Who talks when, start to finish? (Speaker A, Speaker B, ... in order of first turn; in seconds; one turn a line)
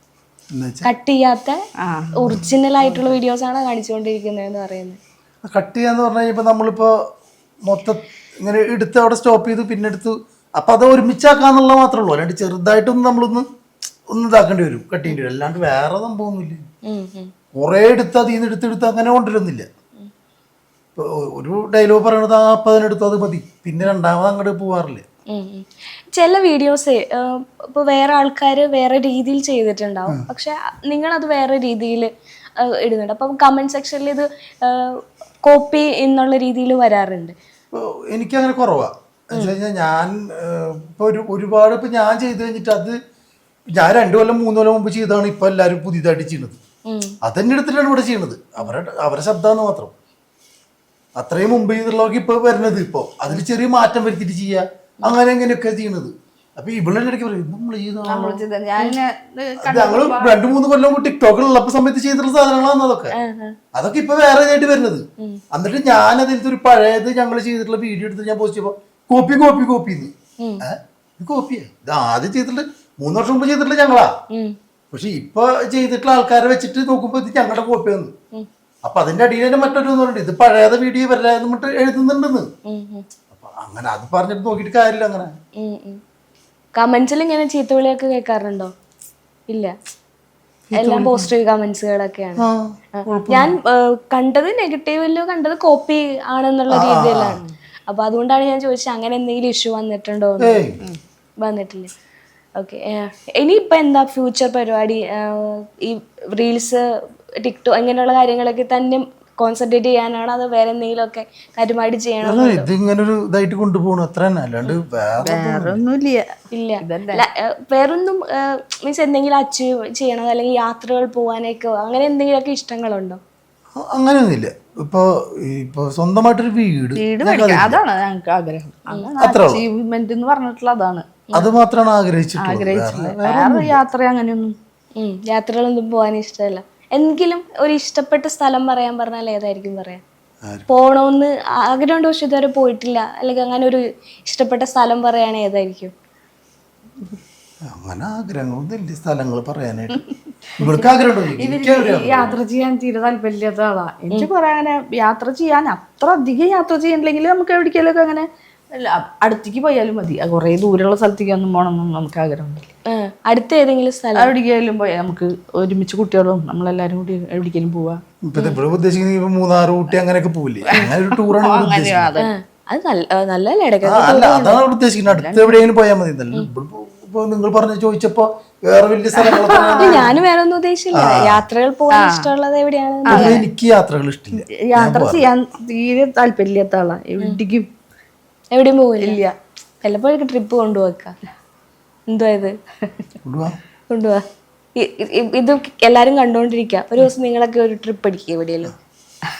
Speaker A: 0.5-0.9
Speaker B: 0.8-1.6
Speaker C: 1.8-3.1
Speaker B: 2.2-5.0
Speaker A: 5.4-6.9
Speaker A: 7.6-13.4
Speaker A: 14.1-16.6
Speaker B: 16.9-17.3
Speaker A: 17.5-19.7
Speaker A: 20.9-25.0
Speaker B: 25.3-37.3
Speaker A: 37.7-43.0
Speaker A: 43.7-46.6
Speaker B: 46.9-47.1
Speaker A: 47.2-49.9
Speaker A: 51.2-58.4
Speaker C: 58.0-60.4
Speaker A: 59.6-63.1
Speaker B: 63.1-63.5
Speaker A: 63.7-74.1
Speaker A: 74.9-78.1
Speaker A: 78.8-82.5
Speaker B: 82.7-83.0
Speaker A: 83.3-85.3
Speaker B: 85.6-86.0
Speaker B: 86.8-88.7
Speaker A: 90.7-91.3
Speaker B: 90.8-92.4
Speaker A: 92.4-93.5
Speaker B: 93.0-100.6
Speaker A: 96.7-97.4
Speaker A: 100.4-100.8
Speaker B: 101.4-101.9
Speaker B: 102.6-106.8
Speaker B: 107.4-112.7
Speaker A: 112.2-115.8
Speaker C: 115.2-116.3
Speaker B: 116.5-123.2
Speaker C: 116.8-117.2
Speaker A: 123.7-127.8
Speaker C: 127.0-131.0
Speaker A: 129.2-129.6
Speaker A: 131.3-133.8
Speaker C: 132.4-134.5
Speaker B: 135.0-140.0
Speaker B: 140.7-145.9
Speaker A: 147.7-150.0
Speaker C: 150.0-150.7
Speaker A: 150.6-152.3
Speaker C: 151.4-162.7
Speaker B: 162.9-164.3
Speaker C: 164.2-168.0
Speaker A: 168.2-172.2
Speaker C: 170.7-172.3
Speaker B: 172.2-174.6
Speaker A: 173.8-180.2
Speaker C: 175.1-175.6
Speaker C: 179.2-180.1
Speaker B: 179.8-183.4
Speaker A: 180.9-181.4
Speaker C: 181.9-182.3
Speaker C: 183.1-183.4
Speaker A: 183.1-185.3
Speaker C: 184.4-187.7
Speaker B: 188.5-189.2
Speaker C: 189.0-189.3
Speaker B: 189.8-191.1
Speaker B: 192.1-192.5
Speaker A: 193.2-193.6
Speaker B: 193.9-194.2
Speaker B: 194.8-198.7